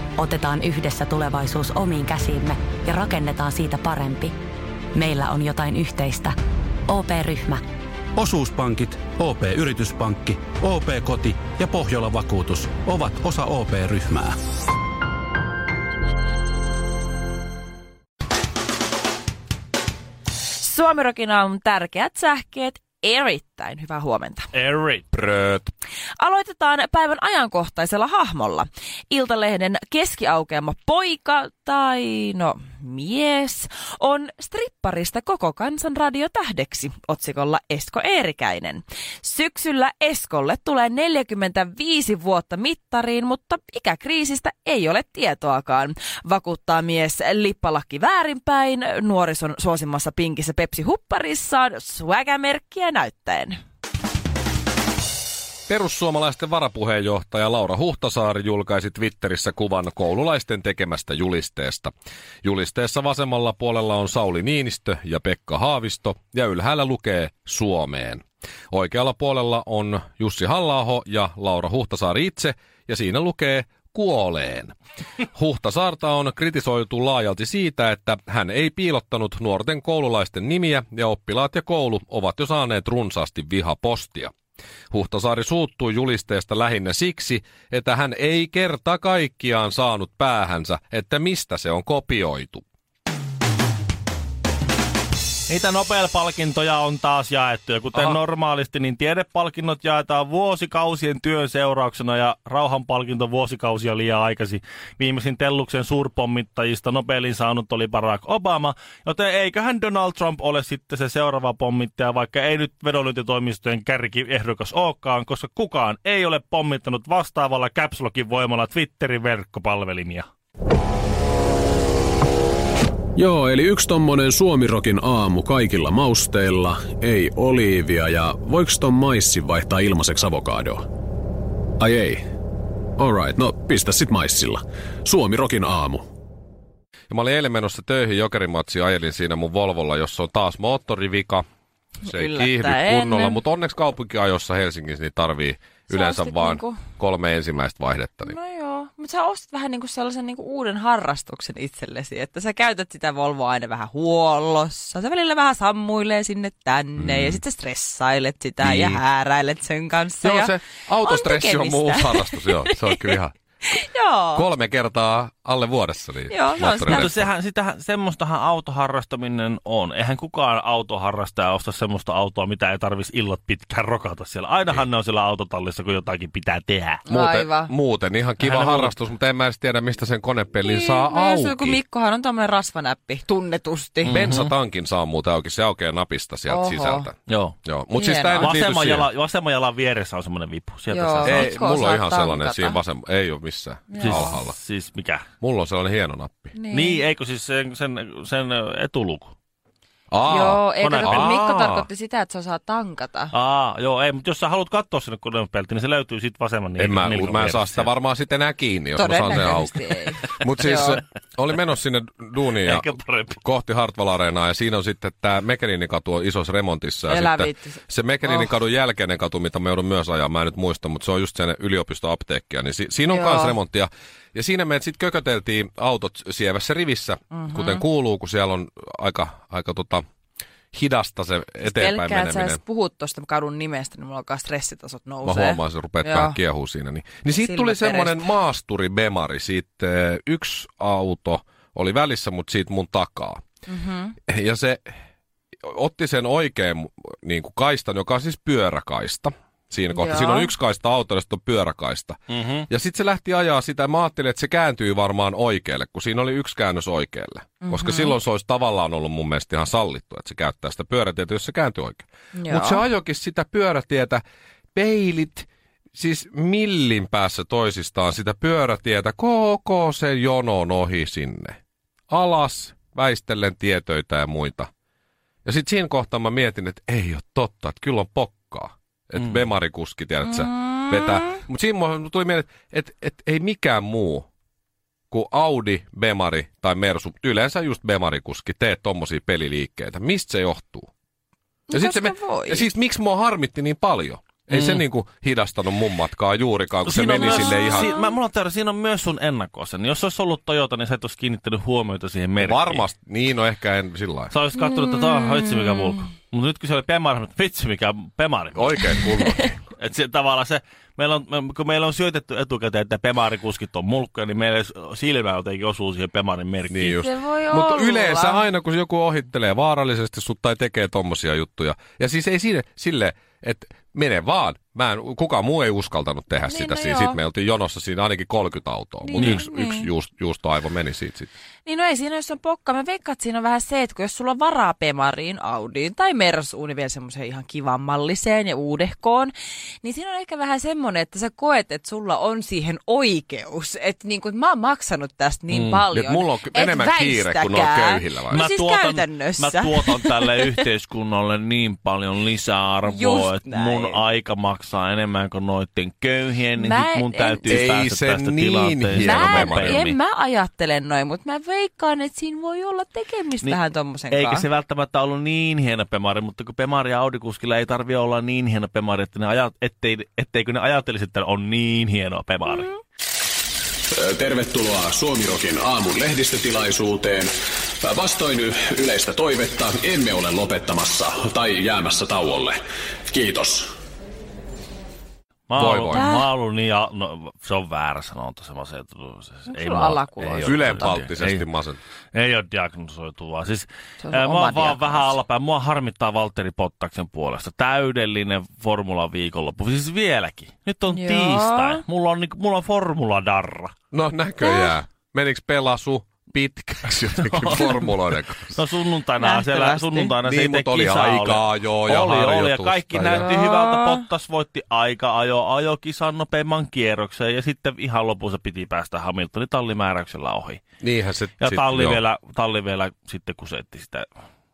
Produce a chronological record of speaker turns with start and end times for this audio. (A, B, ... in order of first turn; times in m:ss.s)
0:00.2-0:04.3 A
0:04.9-0:06.3 A
0:06.9-0:07.6 A
0:08.2-0:14.4 B
0:20.5-0:24.5 C
0:24.5-0:25.0 D
0:25.1-0:25.7 E
0:26.2-0:53.6 C
0:55.7-1:01.9 E
1:02.4-1:14.7 E
1:15.3-1:24.3 E
1:24.9-1:32.6 E
1:35.5-2:00.3 D
2:03.2-2:10.8 F
2:11.8-2:12.2 F
2:13.0-2:16.0 F
2:17.1-2:21.4 E
2:22.0-2:23.4 C
2:22.0-2:28.4 E
2:25.9-2:26.8 C
2:28.2-2:43.1 C
2:37.0-2:37.4 E
2:38.6-2:39.0 E
2:40.2-2:43.3 E
2:43.7-2:44.4 C
2:44.3-2:47.2 E
2:46.3-2:47.2 C
2:46.9-2:57.0 D
2:57.1-2:57.7 C
2:57.1-3:01.8 E
2:58.4-2:58.9 D
3:00.6-3:04.3 C
3:04.0-3:04.5 D
3:04.0-3:09.1 E
3:06.5-3:07.1 C
3:07.3-3:07.6 D
3:07.9-3:08.5 C
3:08.4-3:11.5 D
3:10.9-3:12.8 C
3:11.2-3:14.6 E
3:13.9-3:14.4 C
3:14.0-3:15.2 D
3:15.4-3:16.5 E
3:16.5-3:17.0 C
3:16.7-3:19.3 D
3:20.1-3:21.7 E
3:20.2-3:23.3 C
3:20.5-3:21.8 D
3:23.3-3:27.9 D
3:26.8-3:50.0 E
3:29.0-3:31.0 C
3:32.6-3:33.4 D
3:37.1-3:38.5 C
3:43.1-3:43.6 C
3:47.3-3:47.8 C
3:50.7-3:52.6 E
3:51.6-3:56.4 C
3:55.2-4:03.4 E
3:57.4-3:58.3 C
4:03.7-4:04.1 C
4:04.3-4:04.9 E
4:05.6-4:24.2 E
4:09.9-4:10.5 C
4:12.3-4:12.6 D
4:17.6-4:18.2 C
4:22.3-4:22.8 C
4:24.7-4:31.6 E
4:32.1-4:34.7 E
4:35.4-4:44.3 E
4:40.6-4:41.0 C
4:45.1-4:50.9 E
4:51.7-4:52.7 C
4:51.7-4:57.9 E
4:54.5-4:54.8 D
4:56.8-5:02.8 D
4:57.2-4:57.9 C
5:02.4-5:04.3 E
5:04.3-5:16.9 D
5:04.7-5:06.0 C
5:08.5-5:09.6 E
5:16.7-5:31.3 E
5:16.8-5:18.4 C
5:26.5-5:27.2 C
5:29.0-5:29.9 C
5:31.6-5:50.5 C
5:45.5-5:48.4 E
5:48.3-6:00.0 D
5:52.8-5:54.0 C
5:56.5-5:57.7 C
5:57.5-5:59.8 E
5:58.9-6:04.5 C
6:04.1-6:12.7 D
6:12.4-6:12.8 C
6:13.9-6:23.7 F
6:25.5-6:31.4 D
6:25.6-6:26.0 E
6:25.9-6:26.3 C
6:29.5-6:31.0 C
6:30.4-6:31.8 E
6:32.1-6:43.7 D
6:34.0-6:35.2 C
6:40.9-6:41.8 C
6:43.9-6:48.6 E
6:44.4-6:44.8 C
6:47.2-7:00.6 D
6:49.2-6:50.1 C
6:50.2-6:53.3 E
6:53.1-6:54.0 C
7:00.8-7:02.0 E
7:01.4-7:04.1 D